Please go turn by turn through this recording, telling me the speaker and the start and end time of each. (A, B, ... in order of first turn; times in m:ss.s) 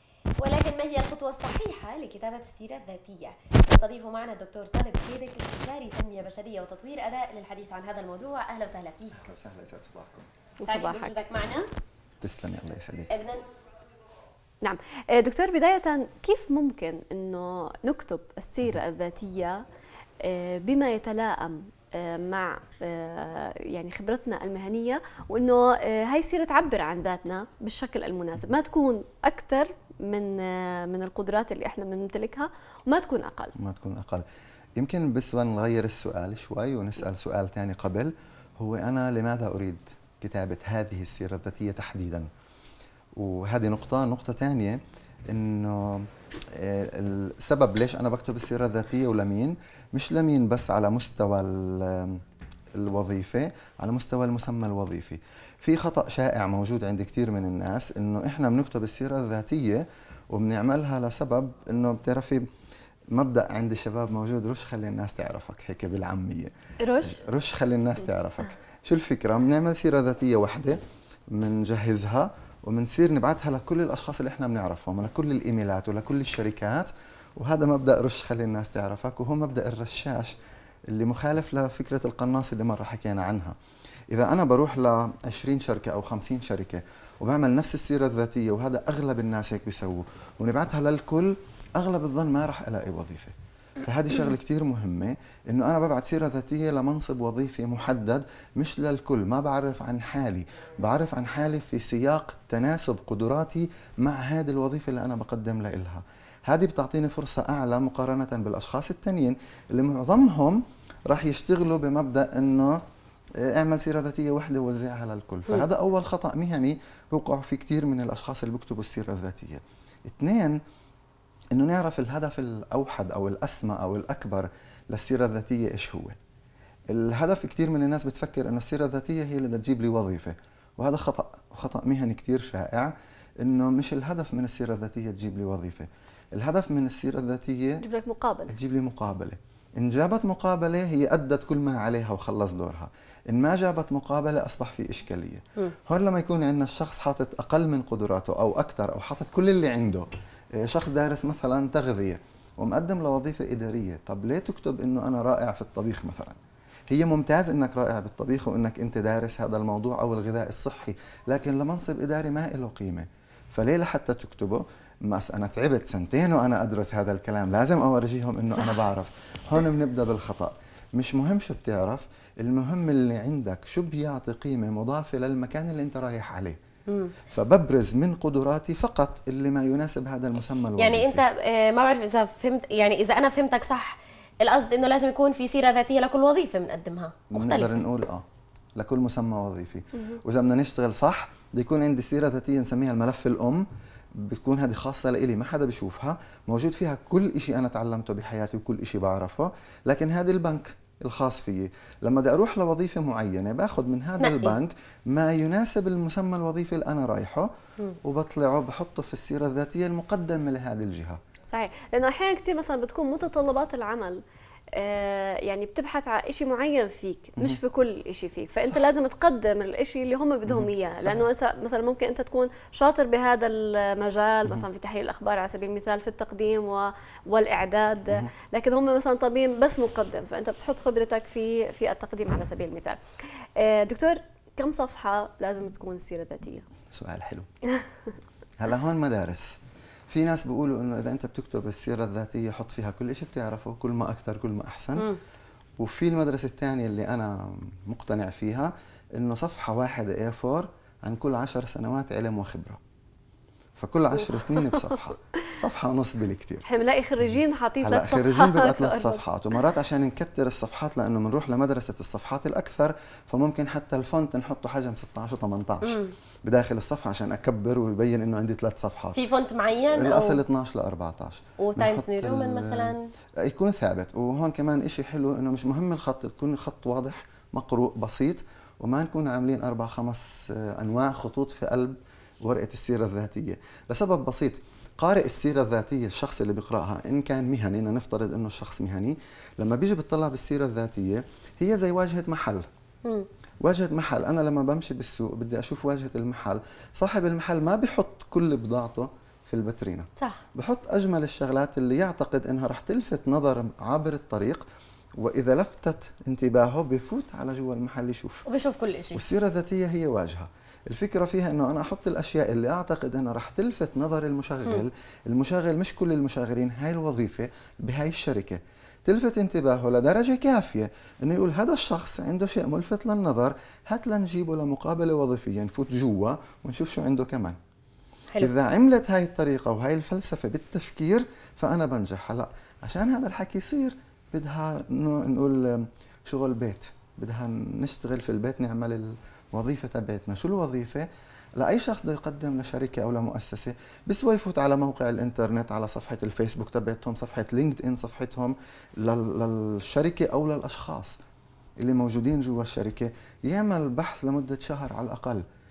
0:00.4-0:09.2 A
0:09.1-0:10.3 B
0:10.6-0:11.1 C
0:10.7-0:11.7 A
0:12.2-0:13.2 B
0:13.1-0:13.4 A
0:14.6-0:19.6 C
0:20.2-0:33.5 C
0:33.6-0:34.2 B
0:34.8-0:42.3 B
0:43.2-0:52.2 B
0:52.8-1:02.4 B
1:03.1-1:10.8 B
1:06.8-1:07.2 C
1:11.3-1:20.4 B
1:20.9-1:23.6 B
1:24.1-1:52.8 B
1:53.4-2:00.6 B
2:01.5-2:06.2 B
2:06.9-2:17.8 B
2:17.8-2:18.5 C
2:18.5-2:36.4 B
2:36.9-2:56.6 B
2:56.9-2:57.1 A
2:57.3-3:01.2 B
3:00.8-3:07.8 A
3:07.3-3:08.2 B
3:08.8-3:27.5 B
3:24.2-3:24.6 A
3:28.0-3:31.2 B
3:31.5-3:34.2 C
3:34.8-3:53.0 C
3:40.5-3:41.3 B
3:53.6-3:56.6 C
3:56.9-3:57.5 B
3:58.6-3:59.6 B
4:00.1-4:05.1 B
4:05.8-4:12.8 B
4:13.8-4:16.7 B
4:16.7-4:19.2 C
4:17.3-4:29.2 B
4:25.8-4:26.1 A
4:29.2-4:30.4 A
4:29.9-4:52.7 B
4:31.6-4:33.0 A
4:53.6-5:04.6 B
5:05.2-5:08.5 B
5:08.5-5:09.2 A
5:09.1-5:27.6 B
5:28.4-5:51.2 B
5:51.8-5:55.4 B